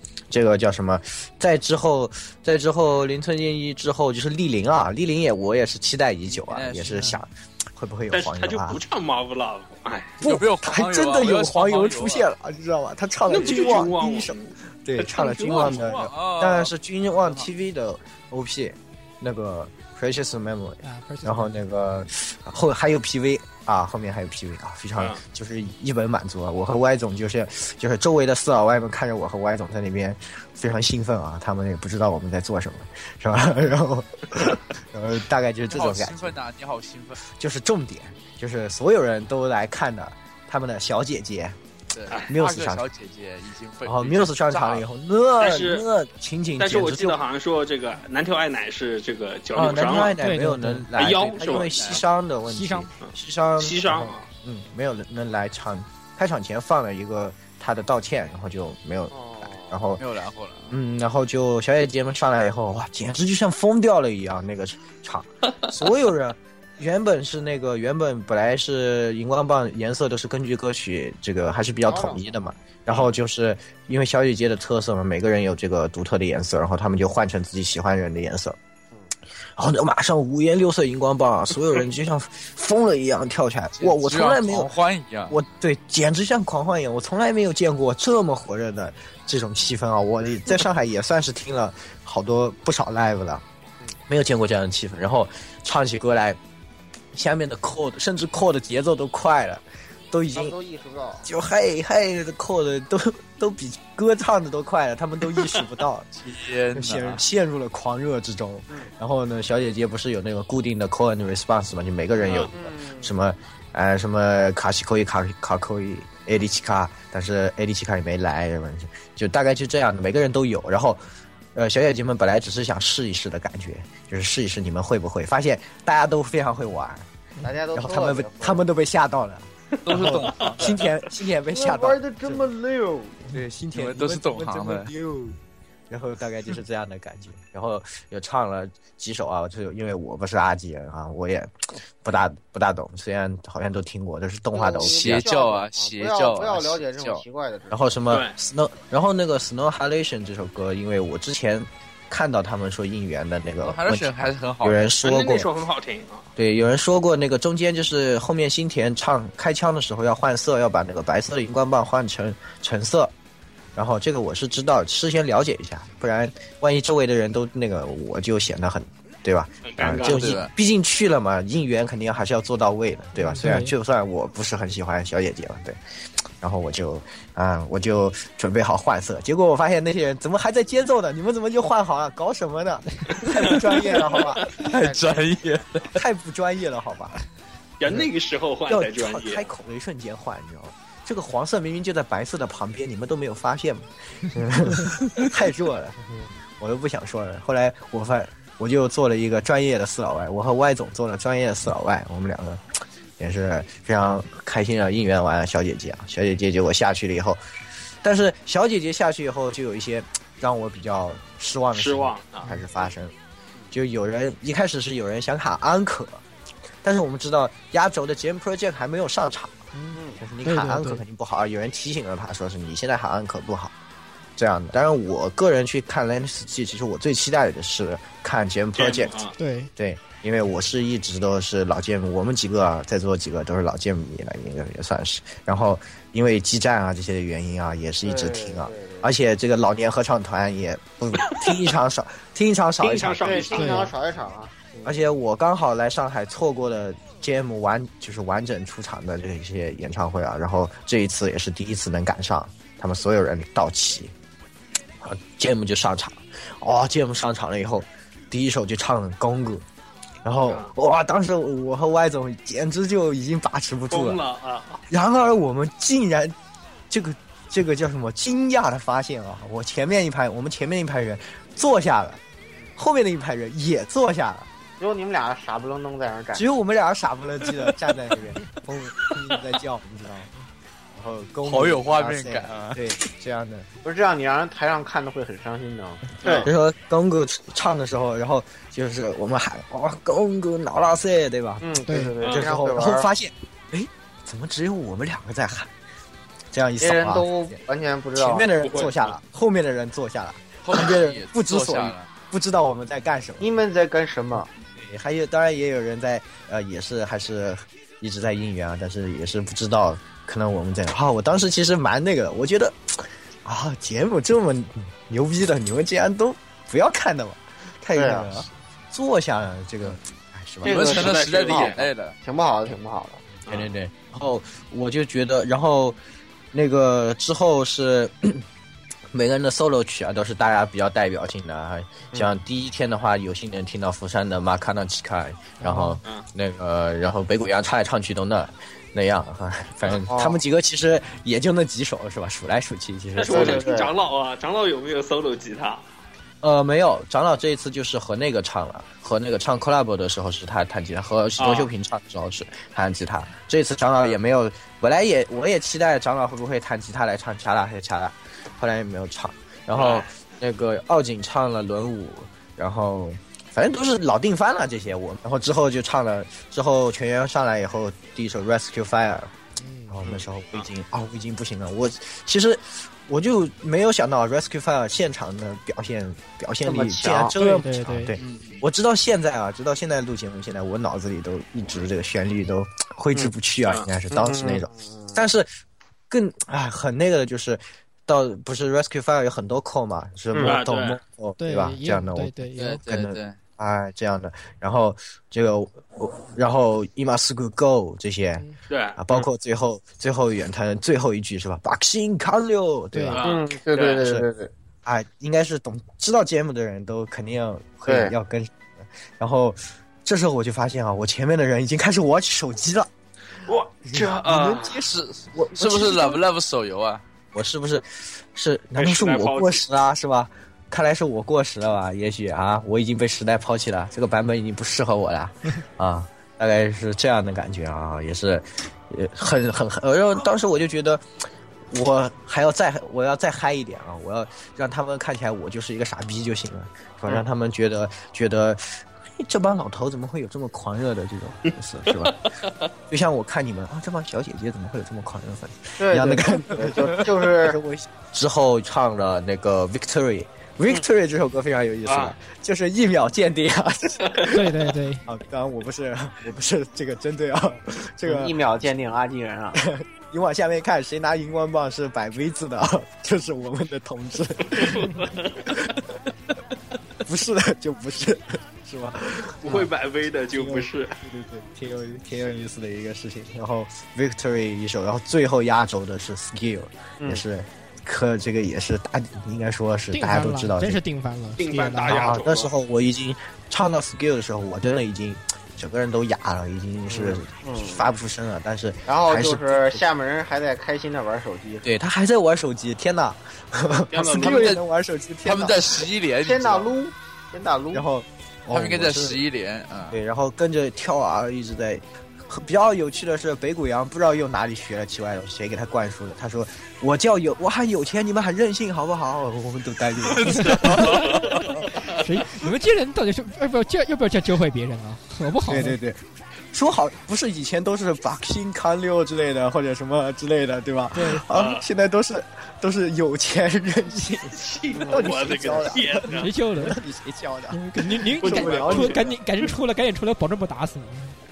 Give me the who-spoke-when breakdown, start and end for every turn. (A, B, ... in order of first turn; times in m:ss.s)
0:00.3-0:08.8 A
0:06.3-0:07.1 B
0:06.9-0:07.2 C
0:08.1-0:10.2 D
0:10.2-0:12.3 B
0:10.2-0:36.3 A
0:13.3-0:15.8 D
0:15.4-0:17.5 B
0:20.8-0:21.5 C
0:35.7-0:37.2 B
0:37.2-0:41.6 A
0:41.9-0:44.8 B
0:42.3-0:42.9 A
0:43.8-0:47.2 A
0:45.4-0:45.9 D
0:46.6-0:50.2 D
0:49.5-1:00.0 A
0:50.2-0:50.9 C
0:51.0-0:51.7 D
0:51.3-0:52.0 B
0:52.4-0:52.9 C
0:53.0-0:54.3 D
0:59.1-0:59.8 E
1:00.0-1:00.8 B
1:00.7-1:18.6 A
1:11.8-1:12.5 E
1:19.6-1:24.7 A
1:23.8-1:25.4 B
1:25.3-1:33.4 A
1:34.1-1:36.4 A
1:37.1-1:40.6 A
1:40.3-1:41.3 E
1:41.2-2:01.0 A
1:46.2-1:47.2 B
1:52.2-1:53.1 E
2:01.5-2:07.0 A
2:07.4-2:08.6 E
2:07.7-2:12.5 A
2:09.8-2:10.8 B
2:10.3-2:10.8 D
2:11.5-2:13.3 E
2:13.2-2:15.4 A
2:13.7-2:14.9 B
2:15.9-2:25.3 A
2:24.5-2:28.0 E
2:24.8-2:27.2 B
2:27.7-2:35.5 A
2:28.1-2:28.3 D
2:33.6-2:34.9 B
2:35.0-2:36.3 D
2:36.4-2:43.1 A
2:43.7-2:55.8 A
2:49.6-2:50.4 D
2:50.0-2:50.5 B
2:53.2-2:53.7 C
2:56.4-3:04.5 A
3:04.5-3:05.8 E
3:04.5-3:06.0 B
3:05.9-3:07.2 A
3:07.8-3:09.5 D
3:08.7-3:16.0 A
3:16.6-3:27.4 A
3:28.0-3:33.1 A
3:31.7-3:32.4 D
3:33.7-3:36.2 A
3:36.8-3:39.6 A
3:39.7-3:41.0 C
3:40.0-3:40.2 E
3:40.2-3:43.7 A
3:44.4-3:49.2 A
3:48.8-3:49.3 D
3:49.4-3:49.7 C
3:49.8-4:03.6 A
3:58.0-3:59.1 E
4:01.2-4:01.6 D
4:02.8-4:03.9 D
4:03.2-4:05.0 E
4:03.5-4:03.9 C
4:04.8-4:14.1 A
4:15.0-4:19.6 A
4:20.2-4:24.2 A
4:20.4-4:20.7 D
4:23.9-4:24.8 D
4:24.9-4:26.3 A
4:26.9-4:32.2 A
4:32.8-4:34.5 A
4:34.8-4:36.4 E
4:36.3-4:40.3 A
4:40.9-4:43.7 A
4:41.4-4:42.9 B
4:43.8-4:46.5 E
4:46.2-4:46.5 D
4:46.4-4:51.7 A
4:51.6-4:53.1 E
4:51.9-4:52.1 C
4:52.2-4:52.5 D
4:52.2-4:55.7 A
4:56.5-4:57.6 A
4:56.8-4:58.5 E
4:58.1-5:03.4 A
4:58.6-4:59.1 D
5:00.6-5:02.1 B
5:03.4-5:04.5 E
5:04.8-5:20.8 A
5:17.9-5:18.4 E
5:20.6-5:23.4 E
5:20.6-5:21.8 D
5:20.7-5:22.2 B
5:23.5-5:26.0 A
5:26.5-5:28.4 A
5:29.1-5:43.9 A
5:35.6-5:36.0 C
5:40.1-5:40.4 E
5:43.2-5:45.8 D
5:43.3-5:43.9 E
5:46.4-6:09.3 A
5:51.4-5:51.7 D
5:59.7-6:00.1 D
6:09.6-6:10.0 C
6:09.9-6:25.5 A
6:16.6-6:17.3 E
6:17.4-6:18.1 C
6:18.2-6:18.6 B
6:24.2-6:25.2 E
6:26.1-6:38.4 A
6:30.4-6:31.0 D
6:31.4-6:32.8 C
6:32.6-6:33.4 B
6:38.7-6:39.3 D
6:39.0-6:43.3 A
6:42.9-6:43.2 C
6:43.1-6:44.0 D
6:43.2-6:44.5 E
6:44.0-6:44.3 A
6:44.8-6:48.7 A
6:47.8-6:48.1 E
6:49.2-6:52.9 A
6:53.4-6:54.8 D
6:53.9-6:56.2 A
6:54.8-6:57.0 B
6:57.3-7:11.0 A
6:58.7-6:59.6 D
7:11.7-7:22.2 A
7:21.5-7:22.7 D
7:22.9-7:38.4 A
7:25.8-7:27.6 E
7:31.9-7:32.1 D
7:34.0-7:34.3 D
7:34.3-7:35.0 C
7:38.0-7:39.6 E
7:39.5-7:45.7 A
7:44.5-7:45.7 D
7:47.0-7:49.7 A
7:49.4-7:51.0 D
7:50.3-8:00.8 A
7:59.9-8:02.2 C
8:01.4-8:02.5 D
8:01.8-8:09.8 A
8:06.9-8:07.9 E
8:08.9-8:11.7 E
8:11.6-8:15.9 A
8:13.9-8:14.6 D
8:14.2-8:14.6 B
8:15.2-8:16.7 B
8:16.2-8:17.8 E
8:17.7-8:19.2 A
8:18.5-8:20.0 B
8:19.9-8:31.5 A
8:30.1-8:31.4 B
8:30.3-8:31.4 C
8:30.5-8:31.5 D
8:31.9-8:35.8 C
8:35.5-8:49.2 A
8:40.9-8:41.2 C
8:41.3-8:41.6 D
8:44.3-8:46.3 D
8:44.7-8:45.1 E
8:46.1-8:46.8 C
8:47.5-8:51.1 C
8:48.2-8:49.0 D